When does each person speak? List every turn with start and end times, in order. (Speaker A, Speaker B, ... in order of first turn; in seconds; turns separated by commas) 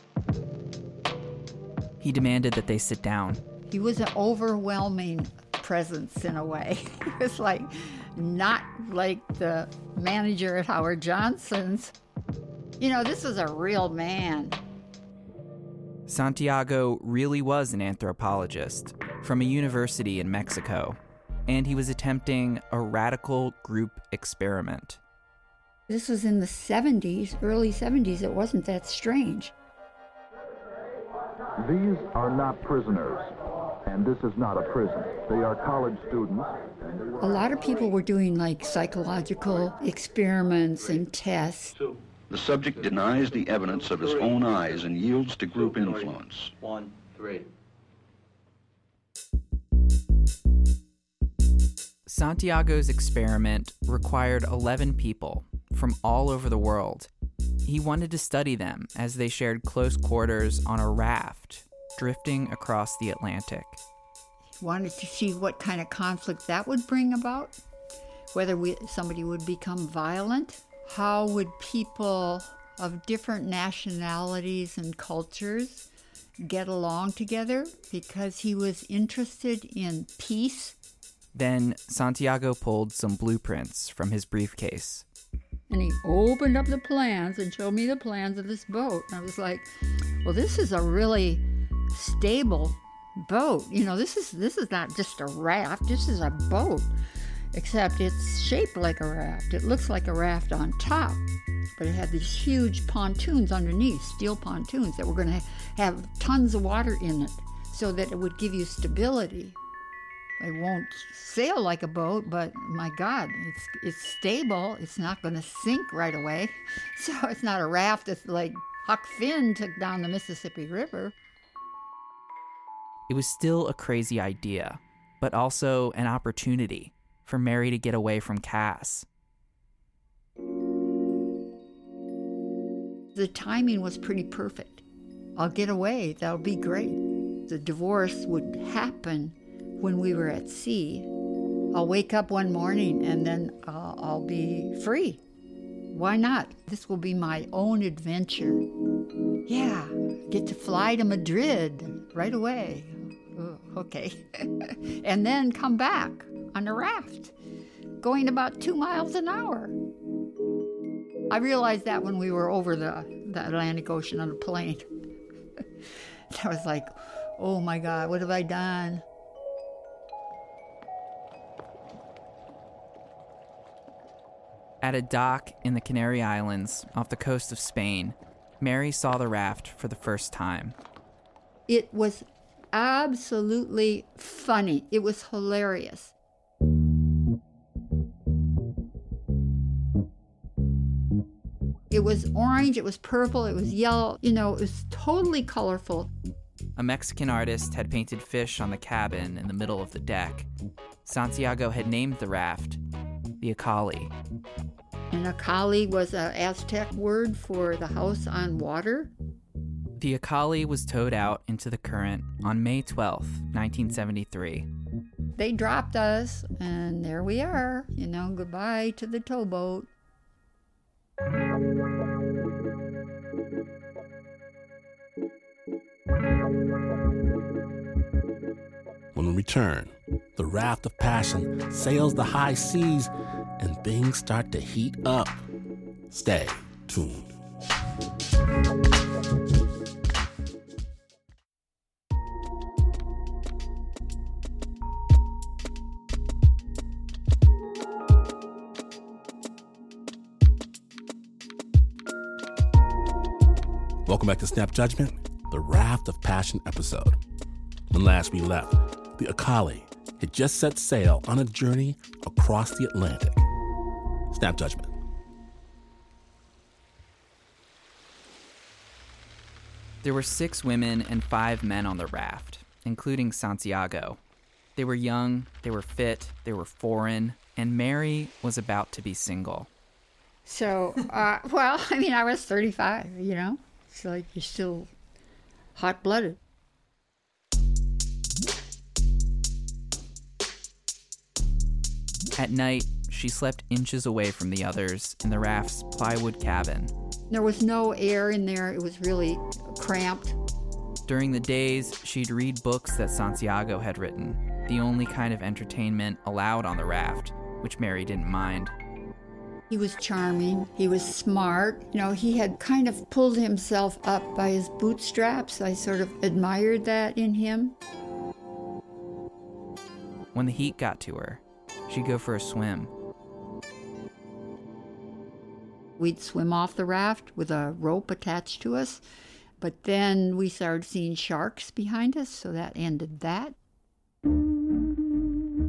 Speaker A: 2.0-3.4, Speaker B: 3.7-11.9, Speaker B: 12.8-14.6, Speaker A: 16.1-25.0, Speaker B: 25.9-29.5, Speaker C: 31.6-33.3, Speaker C: 33.8-36.6, Speaker B: 37.2-41.7, Speaker D: 42.3-46.5, Speaker A: 52.0-57.1, Speaker A: 57.6-63.8, Speaker B: 64.6-67.5, Speaker B: 68.3-75.9, Speaker B: 76.4-80.8, Speaker A: 81.3-85.0, Speaker B: 85.7-89.7, Speaker B: 90.2-96.9, Speaker B: 97.5-101.2, Speaker B: 101.8-109.6, Speaker B: 110.4-121.1, Speaker A: 123.1-129.1, Speaker B: 133.1-134.8, Speaker B: 135.4-141.1, Speaker B: 141.7-145.2, Speaker B: 145.9-148.6, Speaker B: 149.5-157.3, Speaker B: 158.0-159.7, Speaker B: 161.3-164.9, Speaker B: 166.3-169.0, Speaker A: 174.8-180.8, Speaker B: 181.7-186.1, Speaker B: 191.9-196.1, Speaker A: 196.8-200.5, Speaker A: 201.0-202.8, Speaker A: 203.4-204.1, Speaker B: 205.1-209.1, Speaker A: 209.9-214.7, Speaker B: 215.3-219.9, Speaker E: 229.1-235.4, Speaker E: 236.1-237.3, Speaker E: 254.0-257.2, Speaker E: 257.9-263.4, Speaker E: 264.3-264.9, Speaker A: 270.0-274.2, Speaker A: 274.8-279.7, Speaker B: 280.4-284.9, Speaker B: 285.8-286.4, Speaker A: 292.4-296.9, Speaker B: 297.3-300.4, Speaker A: 301.1-308.7, Speaker B: 309.7-317.7, Speaker A: 320.3-322.9, Speaker B: 326.0-329.0, Speaker B: 329.6-333.6